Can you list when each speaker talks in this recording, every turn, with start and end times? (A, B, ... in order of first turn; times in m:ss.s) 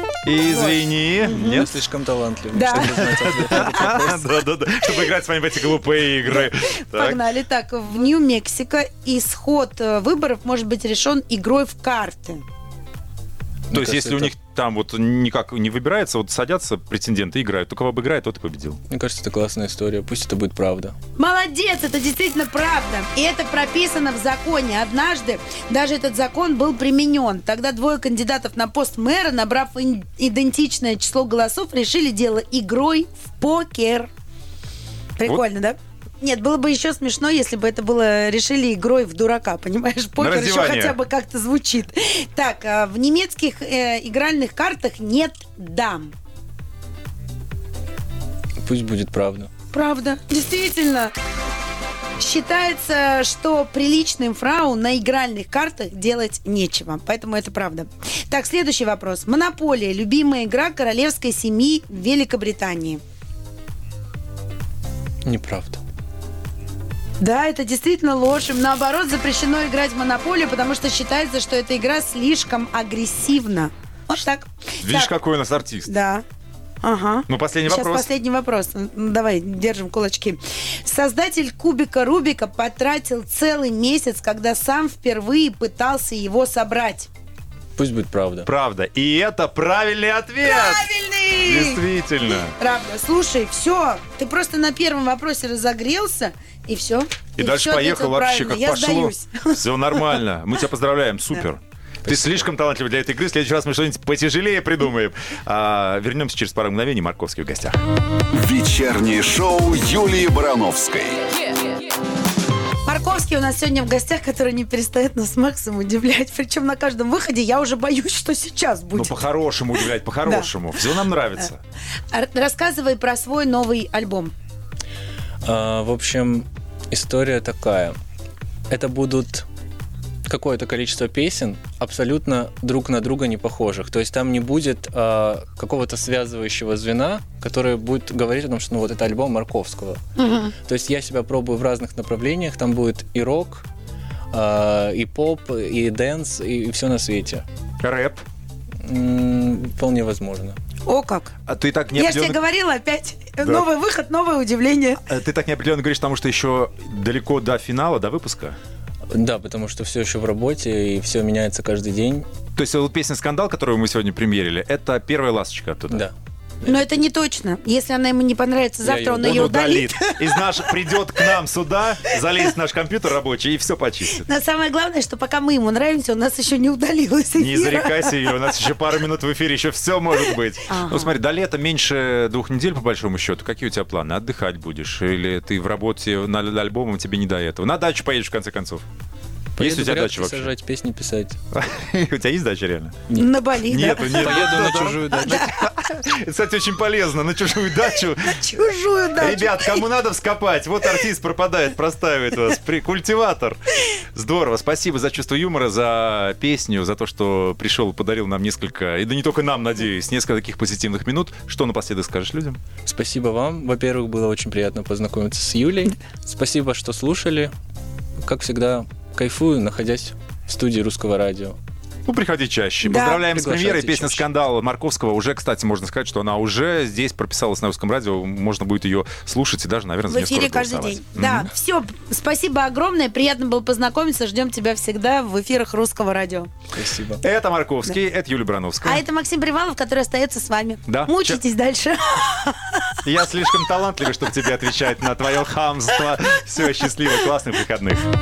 0:00.2-0:01.7 A
0:00.4-0:01.7 B
0:01.4-0:04.2 C
0:02.5-0:04.1 B
0:02.8-0:07.2 A
0:06.4-0:12.4 B
0:13.7-0:14.3 C
0:13.7-0:18.8 A
0:18.9-0:20.9 C
0:21.2-0:34.1 B
0:35.2-0:46.1 B
0:40.2-0:41.0 A
0:48.6-0:49.5 C
0:49.7-0:51.1 B
0:52.2-1:03.0 B
1:05.2-1:05.8 C
1:07.2-1:15.1 B
1:14.8-1:15.9 A
1:15.8-1:16.2 B
1:16.8-1:27.1 B
1:17.3-1:18.1 A
1:27.8-1:28.5 C
1:28.4-1:30.9 A
1:30.4-1:31.8 B
1:31.4-1:32.6 A
1:32.4-1:40.2 B
1:37.4-1:47.8 A
1:42.0-1:42.5 C
1:48.3-1:51.2 D
1:52.8-1:59.2 B
1:58.9-2:01.6 A
1:59.8-2:00.5 B
2:02.1-2:04.3 B
2:05.4-2:08.0 C
2:08.7-2:09.5 C
2:10.2-2:20.0 C
2:20.2-2:20.5 B
2:20.6-2:23.6 C
2:24.3-2:27.4 C
2:27.8-2:28.2 A
2:28.8-2:30.6 C
2:30.8-2:31.3 B
2:31.5-2:32.4 A
2:31.9-2:35.0 B
2:33.4-2:33.7 A
2:35.0-2:38.6 A
2:39.1-2:42.3 C
2:42.6-2:46.1 A
2:45.9-2:46.9 C
2:46.6-2:50.6 B
2:48.8-2:49.8 C
2:49.2-2:54.2 A
2:54.1-2:58.3 B
2:57.4-3:08.8 A
3:00.7-3:01.1 B
3:09.6-3:11.4 C
3:09.6-3:10.5 A
3:11.5-3:13.0 A
3:13.1-3:14.5 B
3:13.7-3:18.4 A
3:14.0-3:15.5 C
3:18.2-3:19.8 B
3:19.2-3:23.6 A
3:24.1-3:32.6 A
3:32.8-3:37.5 C
3:38.2-3:41.6 C
3:42.1-3:51.5 A
3:42.8-3:43.2 B
3:43.3-3:44.3 C
3:50.1-3:56.5 B
3:56.7-3:57.2 C
3:57.2-3:59.0 A
3:58.8-4:02.9 B
4:00.8-4:01.4 A
4:03.0-4:08.1 A